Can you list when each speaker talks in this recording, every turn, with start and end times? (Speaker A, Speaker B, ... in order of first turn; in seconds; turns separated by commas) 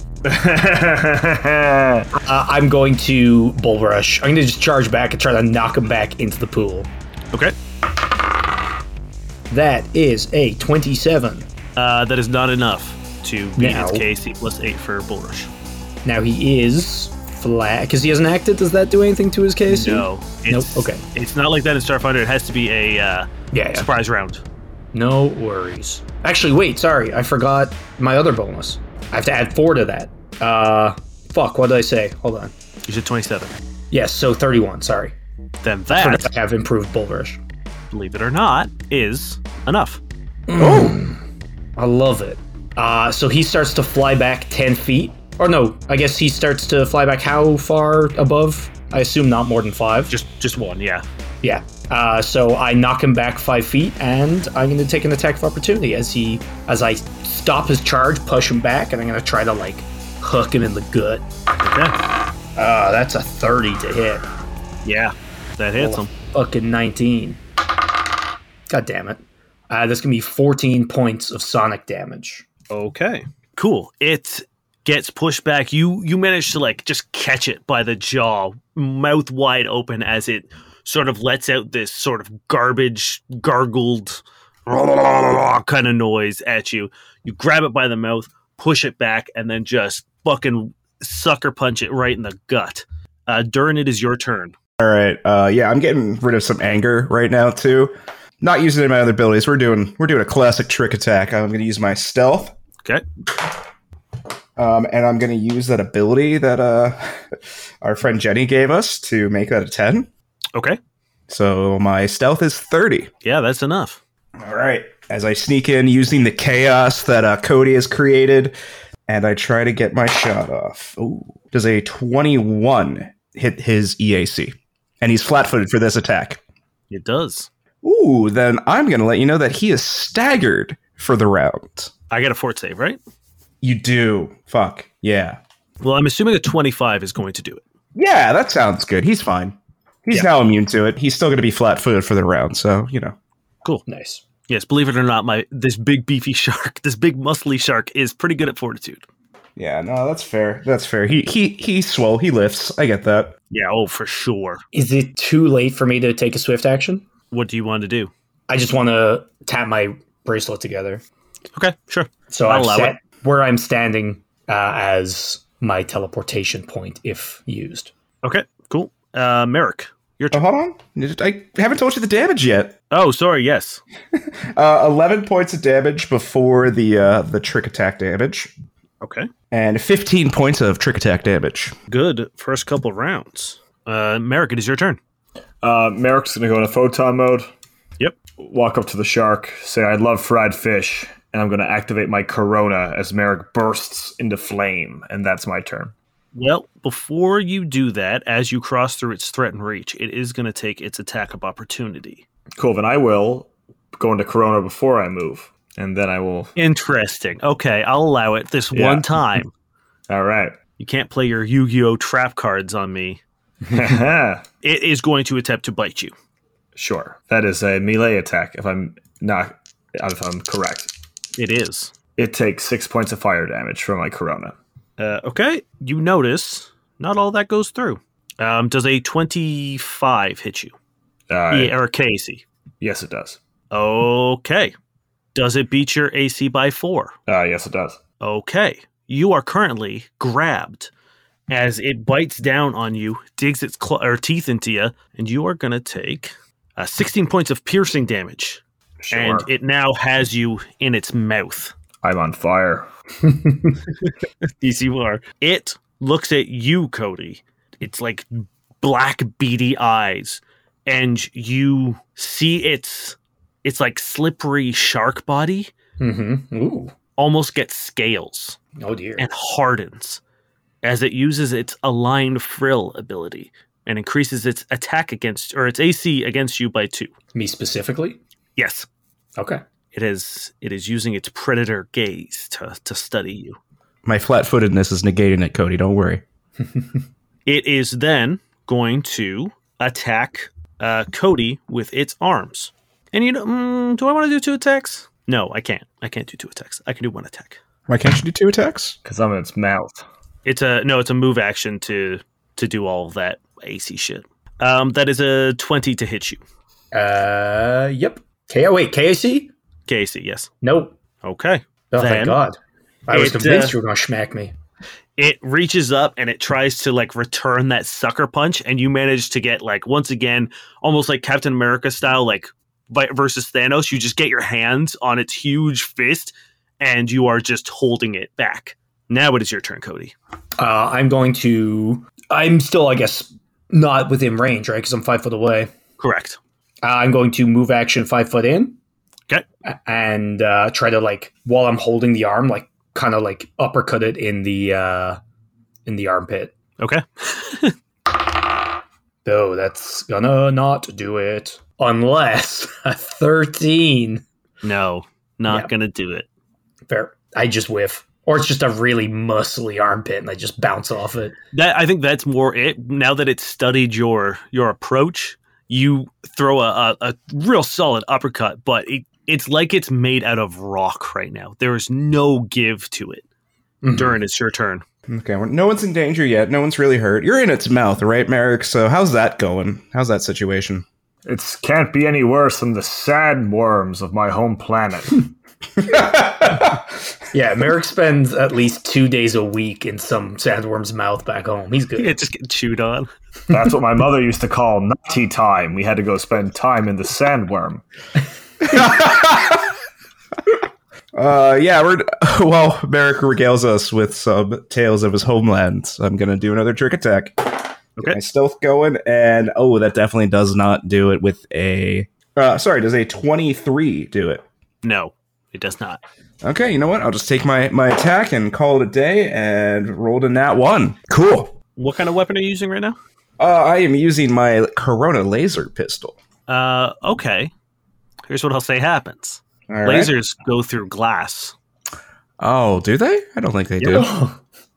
Speaker A: 0.2-2.1, Speaker B: 2.1-6.9, Speaker B: 9.5-11.5, Speaker C: 11.8-15.5, Speaker B: 13.6-14.1, Speaker B: 16.1-21.0, Speaker C: 19.7-24.4, Speaker B: 23.5-23.9, Speaker B: 24.9-32.5, Speaker C: 32.9-33.6, Speaker B: 33.9-35.1, Speaker C: 35.6-36.3, Speaker B: 35.9-37.4, Speaker C: 37.9-40.0, Speaker B: 40.5-41.2, Speaker D: 40.6-41.0, Speaker B: 41.8-50.1, Speaker C: 50.1-51.0, Speaker B: 51.4-61.2, Speaker C: 61.6-62.0, Speaker B: 62.6-64.2, Speaker C: 64.8-66.1, Speaker B: 65.8-67.4, Speaker B: 68.7-72.5, Speaker C: 72.7-94.5, Speaker D: 94.8-102.5, Speaker D: 104.6-107.2, Speaker D: 107.8-110.1, Speaker C: 110.5-110.8, Speaker D: 111.3-113.1, Speaker C: 113.2-114.0, Speaker D: 114.4-118.6, Speaker D: 119.1-126.4, Speaker C: 126.9-127.5, Speaker D: 127.8-131.9, Speaker C: 132.1-133.0, Speaker D: 133.6-135.4, Speaker C: 135.8-137.7, Speaker D: 137.9-143.2, Speaker B: 143.9-144.2, Speaker C: 144.5-149.1, Speaker D: 149.6-153.3, Speaker C: 153.5-154.6, Speaker B: 154.7-157.0, Speaker C: 157.3-158.1, Speaker B: 158.5-161.0, Speaker C: 161.5-162.9, Speaker B: 162.3-167.9, Speaker C: 168.2-170.4, Speaker D: 170.3-172.8, Speaker C: 172.9-173.8, Speaker D: 174.2-178.5, Speaker C: 179.0-179.3, Speaker D: 179.5-181.8, Speaker C: 181.9-185.0, Speaker A: 185.6-187.5, Speaker A: 188.4-195.9, Speaker C: 196.3-202.2, Speaker A: 202.6-206.5, Speaker C: 206.6-209.5, Speaker A: 208.7-209.2, Speaker A: 210.1-210.6, Speaker C: 210.8-213.2, Speaker A: 213.7-214.4, Speaker C: 214.6-216.1, Speaker A: 216.8-220.9, Speaker C: 221.4-221.9, Speaker A: 222.2-224.6, Speaker C: 225.0-230.7, Speaker A: 231.3-231.7, Speaker C: 231.5-232.4, Speaker A: 232.8-233.4, Speaker C: 233.7-234.8, Speaker C: 235.3-237.2, Speaker A: 237.3-238.0, Speaker C: 238.2-240.9, Speaker C: 241.5-251.7, Speaker A: 249.0-249.5, Speaker A: 252.0-252.9, Speaker C: 254.0-265.7, Speaker B: 266.0-266.9, Speaker C: 267.2-268.6, Speaker B: 268.8-269.3, Speaker C: 269.2-270.2, Speaker C: 270.8-277.1, Speaker B: 277.3-278.2, Speaker C: 278.6-278.9, Speaker B: 279.4-279.6, Speaker C: 279.9-283.6, Speaker D: 284.1-286.2, Speaker C: 287.5-297.6, Speaker D: 297.9-299.0, Speaker A: 299.1-300.1, Speaker C: 300.4-306.4, Speaker B: 306.9-309.5, Speaker C: 309.9-310.5, Speaker B: 310.6-310.9, Speaker C: 311.2-312.4, Speaker B: 311.9-314.5, Speaker C: 313.1-313.8, Speaker C: 315.2-330.1, Speaker B: 330.6-335.7, Speaker C: 336.0-336.4, Speaker B: 336.8-338.8, Speaker B: 339.6-345.2, Speaker B: 345.9-346.5, Speaker C: 346.8-347.8, Speaker B: 349.2-354.2, Speaker C: 354.6-356.3, Speaker B: 356.9-361.4, Speaker C: 361.5-373.2, Speaker B: 373.8-374.2, Speaker C: 373.9-374.8, Speaker D: 375.1-380.9, Speaker A: 381.3-385.3, Speaker D: 385.8-386.9, Speaker B: 387.3-392.1, Speaker C: 392.0-393.1, Speaker A: 393.5-397.8, Speaker D: 398.6-399.7, Speaker D: 401.1-414.4, Speaker C: 414.8-416.0, Speaker D: 416.4-421.5, Speaker C: 421.8-423.0, Speaker D: 423.4-426.2, Speaker C: 426.5-427.5, Speaker C: 428.3-431.6, Speaker D: 429.7-430.1, Speaker D: 432.4-434.1, Speaker B: 433.9-434.4